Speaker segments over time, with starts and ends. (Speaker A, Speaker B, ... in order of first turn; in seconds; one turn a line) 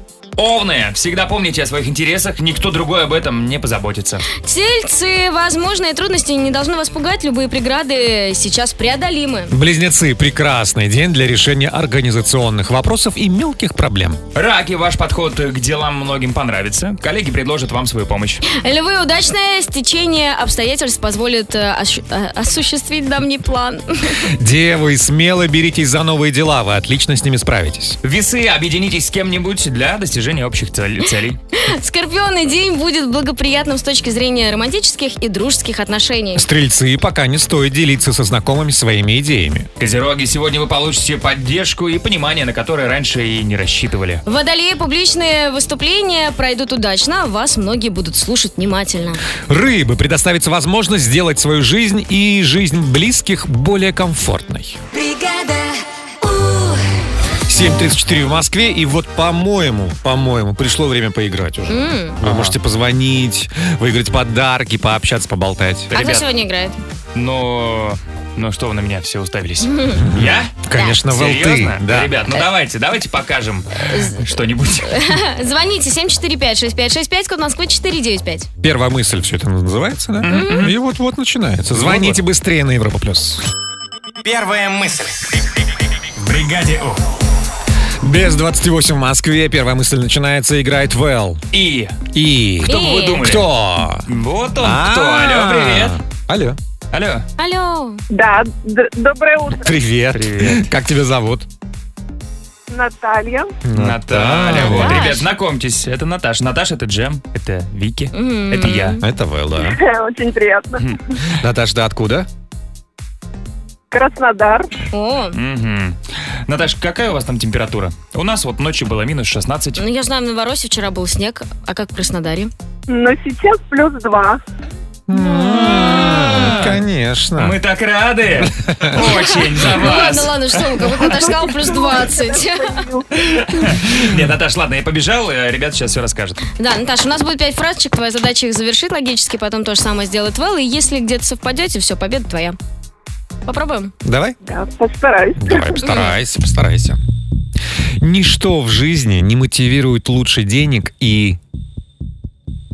Speaker A: 0.4-4.3
Speaker B: 4.3-9.6
Speaker C: 9.5-14.2
Speaker A: 14.3-18.4
Speaker B: 18.4-24.2
Speaker C: 24.2-28.0
Speaker A: 28.0-31.4
Speaker B: 31.6-36.5
Speaker C: 36.4-39.7
Speaker A: 39.8-44.2
Speaker B: 44.2-49.2
Speaker C: 49.5-54.8
Speaker B: 55.0-55.7
Speaker B: 56.3-56.7
Speaker C: 57.5-65.9
Speaker B: 61.7-62.2
Speaker A: 62.2-62.6
Speaker A: 65.9-66.3
Speaker B: 66.0-66.8
Speaker A: 67.2-70.6
Speaker B: 69.6-70.0
Speaker C: 70.0-72.1
Speaker A: 71.1-75.2
Speaker B: 73.9-74.2
Speaker B: 74.9-78.5
Speaker C: 78.6-83.4
Speaker A: 80.2-80.8
Speaker B: 80.3-80.6
Speaker A: 81.7-82.2
Speaker D: 84.2-85.4
Speaker D: 86.2-87.0
Speaker C: 88.0-91.4
Speaker A: 91.5-92.0
Speaker C: 92.1-94.0
Speaker B: 92.7-93.2
Speaker A: 92.7-93.5
Speaker A: 94.1-96.0
Speaker C: 94.6-96.6
Speaker A: 96.9-97.2
Speaker B: 97.4-98.0
Speaker E: 98.1-99.7
Speaker C: 99.5-101.5
Speaker A: 100.1-100.7
Speaker E: 102.7-103.5
Speaker C: 103.7-105.1
Speaker A: 103.8-109.0
Speaker B: 104.6-105.3
Speaker B: 108.1-109.0
Speaker C: 109.0-109.8
Speaker E: 109.6-110.8
Speaker C: 111.4-112.3
Speaker E: 113.9-114.7
Speaker B: 114.9-115.3
Speaker A: 115.3-119.8
Speaker B: 119.8-122.5
Speaker E: 122.9-124.4
Speaker C: 125.1-127.6
Speaker A: 125.7-126.8
Speaker A: 127.4-130.7
Speaker C: 128.4-128.9
Speaker B: 129.0-132.8
Speaker E: 131.0-133.1
Speaker A: 133.3-136.4
Speaker B: 136.6-142.6
Speaker B: 143.5-143.9
Speaker C: 144.0-144.4
Speaker E: 144.4-145.8
Speaker C: 145.4-147.0
Speaker B: 145.8-146.2
Speaker C: 148.0-151.4